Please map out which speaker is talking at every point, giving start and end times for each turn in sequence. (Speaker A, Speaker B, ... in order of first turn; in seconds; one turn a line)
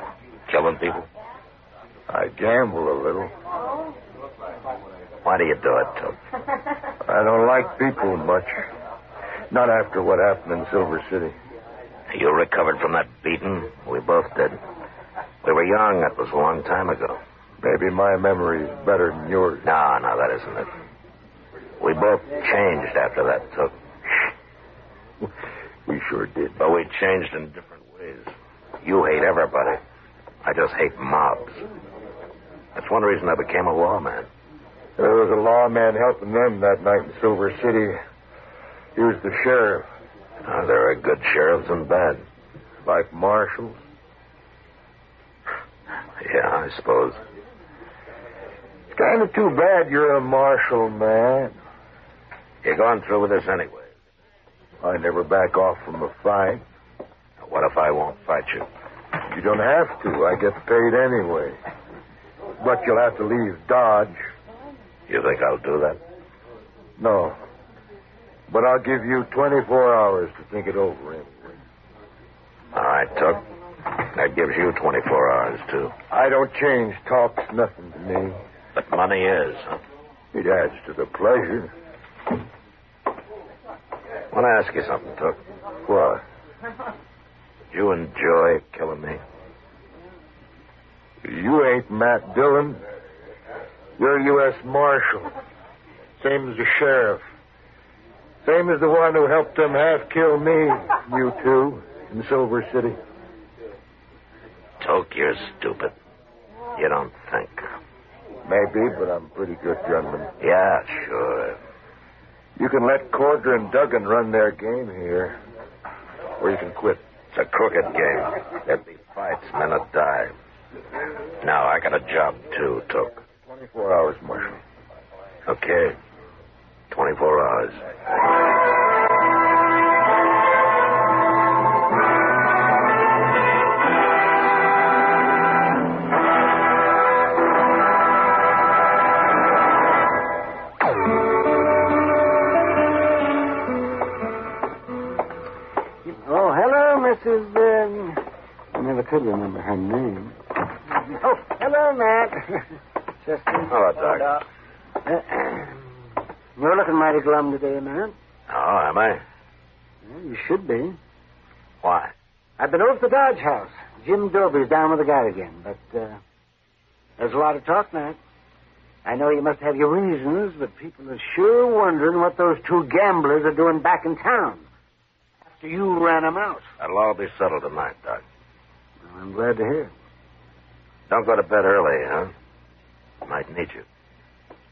Speaker A: 0.5-1.1
Speaker B: 2.1-3.3
Speaker A: 5.2-6.2
Speaker B: 7.0-8.7
Speaker B: 9.5-11.3
Speaker A: 12.1-14.6
Speaker A: 15.4-17.2
Speaker B: 17.6-19.7
Speaker A: 19.6-20.7
Speaker A: 21.8-23.7
Speaker B: 25.9-26.6
Speaker A: 26.6-28.3
Speaker A: 28.8-29.8
Speaker A: 30.4-31.6
Speaker A: 32.8-34.3
Speaker B: 35.0-38.0
Speaker B: 39.0-39.9
Speaker A: 40.5-42.2
Speaker B: 42.8-43.8
Speaker A: 46.2-47.2
Speaker B: 48.9-51.5
Speaker A: 52.6-53.9
Speaker B: 54.8-56.6
Speaker A: 57.4-58.7
Speaker B: 59.3-61.6
Speaker B: 62.6-64.2
Speaker A: 65.1-66.0
Speaker B: 67.0-67.4
Speaker B: 68.5-71.6
Speaker A: 72.7-75.9
Speaker B: 76.1-78.4
Speaker A: 78.8-79.8
Speaker B: 80.3-81.7
Speaker A: 84.3-85.4
Speaker B: 85.9-86.2
Speaker A: 87.7-89.2
Speaker B: 91.2-92.8
Speaker B: 94.0-95.3
Speaker B: 96.2-97.2
Speaker B: 98.5-103.0
Speaker A: 104.8-105.9
Speaker A: 106.8-107.7
Speaker B: 108.5-110.3
Speaker A: 110.4-111.6
Speaker B: 112.6-115.4
Speaker B: 116.4-117.0
Speaker A: 117.3-120.3
Speaker A: 121.4-123.2
Speaker B: 123.4-124.6
Speaker A: 125.5-126.0
Speaker A: 126.9-127.8
Speaker C: 146.1-150.4
Speaker C: 151.1-152.7
Speaker C: 153.2-153.8
Speaker A: 153.7-154.4
Speaker C: 155.1-155.8
Speaker C: 156.6-158.1
Speaker A: 158.5-159.2
Speaker C: 160.1-161.0
Speaker A: 161.8-162.1
Speaker C: 162.6-166.2
Speaker C: 167.2-168.2
Speaker C: 169.1-174.7
Speaker C: 175.5-176.6
Speaker A: 176.8-178.2
Speaker C: 179.0-179.9
Speaker A: 181.1-182.3
Speaker A: 183.2-183.8